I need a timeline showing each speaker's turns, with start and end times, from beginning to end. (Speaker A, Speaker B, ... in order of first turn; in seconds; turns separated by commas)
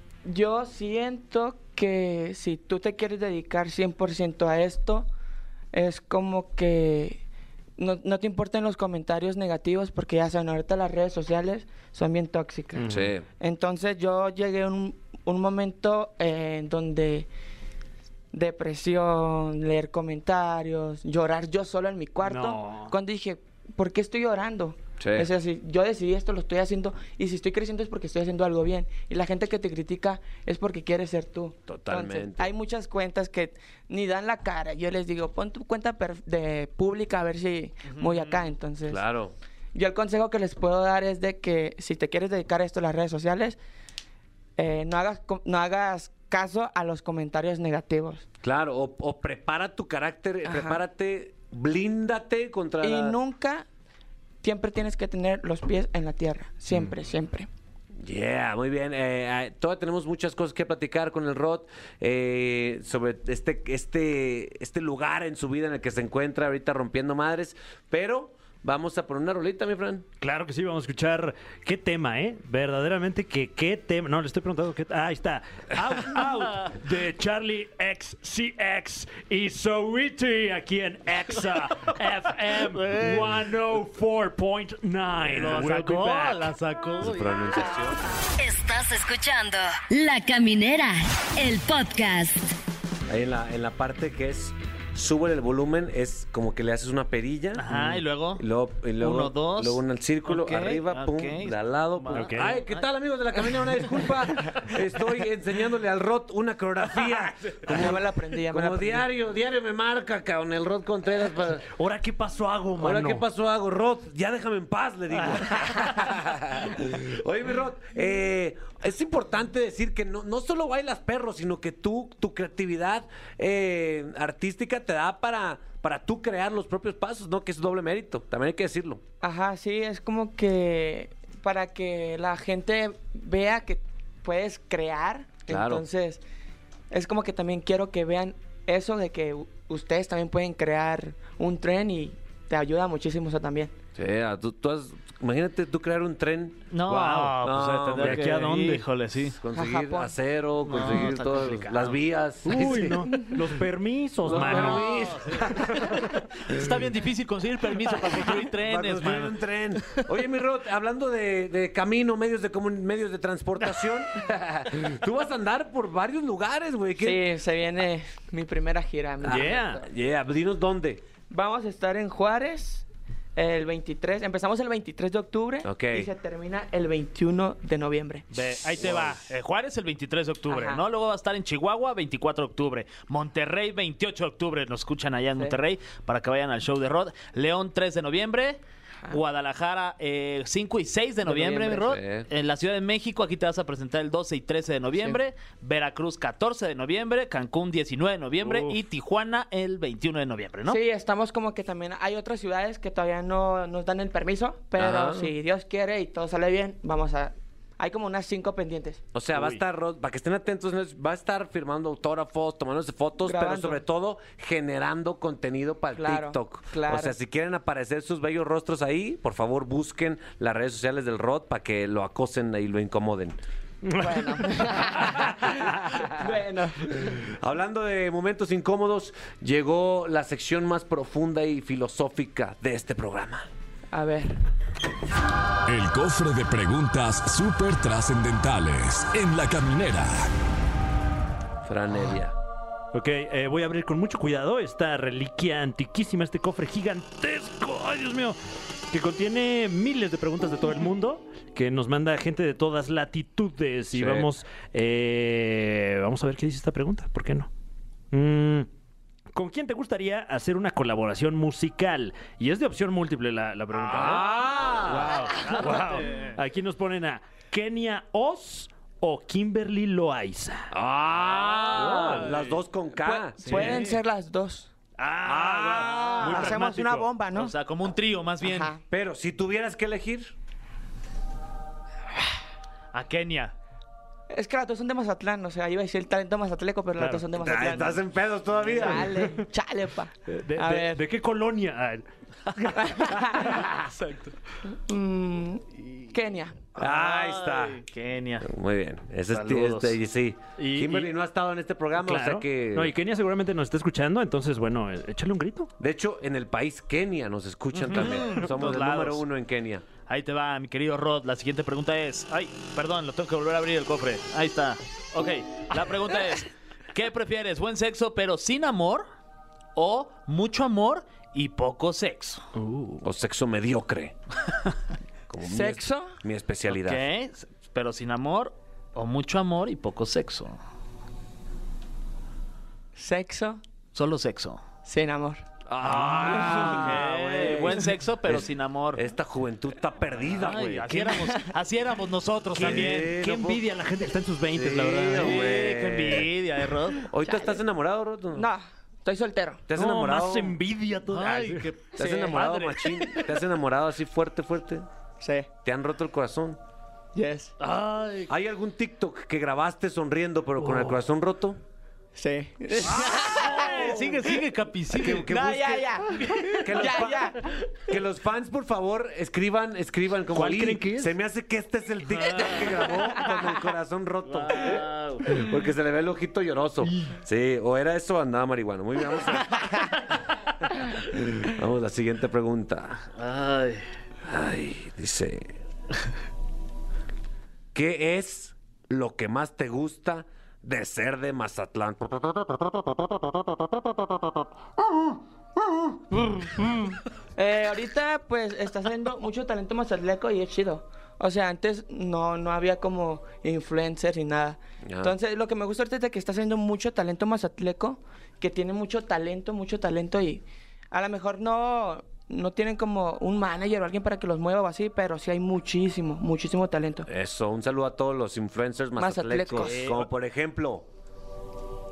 Speaker A: 0.2-5.1, Speaker A: 5.7-7.2, Speaker A: 7.8-17.3, Speaker B: 12.8-13.1, Speaker C: 12.9-13.2, Speaker A: 18.3-39.0, Speaker B: 22.2-22.9, Speaker C: 25.0-25.3, Speaker C: 31.7-32.5, Speaker D: 37.9-38.4, Speaker C: 38.9-39.3, Speaker A: 39.7-43.6, Speaker A: 44.6-48.3, Speaker C: 48.4-53.2, Speaker A: 50.4-50.8, Speaker A: 52.8-53.7, Speaker A: 54.4-57.5, Speaker C: 58.0-70.0, Speaker B: 70.2-86.5, Speaker D: 82.7-83.3, Speaker D: 85.3-87.7, Speaker C: 87.0-88.1, Speaker E: 88.4-92.5, Speaker C: 93.1-97.7, Speaker D: 97.6-98.4, Speaker B: 97.7-98.0, Speaker C: 98.4-111.7, Speaker D: 99.0-102.8, Speaker B: 102.1-102.6, Speaker A: 107.6-109.0, Speaker B: 111.7-113.2, Speaker C: 112.8-129.0, Speaker A: 129.2-136.2, Speaker C: 135.5-135.8, Speaker A: 136.9-143.7, Speaker C: 144.0-146.7, Speaker D: 146.7-149.4, Speaker B: 146.9-147.4, Speaker C: 147.4-148.3, Speaker B: 148.0-148.9, Speaker C: 149.4-153.2, Speaker A: 149.5-150.2, Speaker D: 150.7-152.0, Speaker B: 152.4-155.0, Speaker C: 154.2-156.1, Speaker D: 154.3-155.8, Speaker B: 155.5-156.0, Speaker D: 156.3-159.4, Speaker C: 158.1-167.2, Speaker A: 167.0-169.8, Speaker C: 169.2-171.0, Speaker B: 169.3-169.8, Speaker A: 171.3-178.3, Speaker C: 175.6-176.1, Speaker D: 178.3-200.8, Speaker C: 178.8-179.1, Speaker A: 180.5-180.8, Speaker C: 191.4-192.3, Speaker B: 198.4-198.8, Speaker A: 200.7-209.0, Speaker C: 204.8-205.3, Speaker C: 209.1-223.4, Speaker B: 209.3-209.6, Speaker A: 213.2-213.8, Speaker A: 215.9-217.2, Speaker B: 223.8-225.0, Speaker A: 224.0-227.2, Speaker C: 225.0-226.3, Speaker C: 226.9-233.5, Speaker A: 233.9-234.4, Speaker F: 235.7-240.3, Speaker C: 241.6-242.3, Speaker B: 242.9-248.4, Speaker B: 248.9-257.5, Speaker C: 253.9-254.3, Speaker B: 258.1-258.7, Speaker B: 259.3-270.7, Speaker C: 263.9-265.4, Speaker D: 264.9-266.4, Speaker C: 270.7-273.7, Speaker D: 271.4-272.5, Speaker B: 271.7-272.3, Speaker A: 273.0-274.7, Speaker D: 273.4-274.0, Speaker D: 275.0-276.5, Speaker C: 275.2-276.6, Speaker B: 275.8-277.1, Speaker A: 276.2-277.5, Speaker D: 277.4-278.7, Speaker A: 278.4-278.8, Speaker C: 278.9-280.3, Speaker D: 282.9-283.5, Speaker A: 284.3-288.0, Speaker B: 287.0-287.2, Speaker C: 287.4-289.3, Speaker A: 288.7-291.1, Speaker B: 290.3-293.0, Speaker A: 292.7-293.6, Speaker D: 294.0-294.3, Speaker A: 294.7-296.6, Speaker C: 296.8-297.8, Speaker D: 296.8-298.5, Speaker C: 298.4-302.9, Speaker D: 299.3-300.0, Speaker D: 300.6-301.1, Speaker B: 300.7-301.0, Speaker B: 302.0-305.7, Speaker C: 305.8-309.9, Speaker D: 307.7-309.2, Speaker D: 310.1-319.1, Speaker D: 319.8-322.4, Speaker B: 322.6-323.1, Speaker C: 323.0-324.1, Speaker C: 325.3-327.1, Speaker A: 325.4-326.2, Speaker D: 326.7-330.6, Speaker A: 333.0-333.6, Speaker D: 333.9-334.6, Speaker A: 334.9-335.4, Speaker C: 335.7-341.1, Speaker D: 335.9-339.0, Speaker B: 335.9-336.9, Speaker D: 340.4-343.1, Speaker B: 342.5-345.6, Speaker C: 342.6-343.6, Speaker C: 344.5-346.3, Speaker D: 345.1-347.0, Speaker C: 347.1-348.5, Speaker A: 347.2-347.6, Speaker A: 348.3-349.7, Speaker C: 349.7-350.6, Speaker B: 349.8-351.7, Speaker D: 351.1-352.9, Speaker C: 352.0-354.9, Speaker A: 352.0-353.2, Speaker A: 355.2-355.5, Speaker C: 355.6-356.6, Speaker A: 357.1-357.5, Speaker D: 357.6-358.3, Speaker C: 358.3-361.6, Speaker B: 360.6-360.9, Speaker A: 362.2-364.1, Speaker D: 362.9-365.3, Speaker B: 363.1-363.9, Speaker C: 364.9-380.0, Speaker A: 365.3-367.6, Speaker B: 370.3-371.1, Speaker D: 372.2-372.6, Speaker D: 374.3-375.4, Speaker C: 381.0-383.1, Speaker D: 383.1-383.9, Speaker C: 384.2-385.6, Speaker C: 387.7-393.6, Speaker A: 396.1-417.1, Speaker C: 404.9-405.1, Speaker C: 417.1-420.9, Speaker A: 419.0-419.9, Speaker D: 419.6-420.0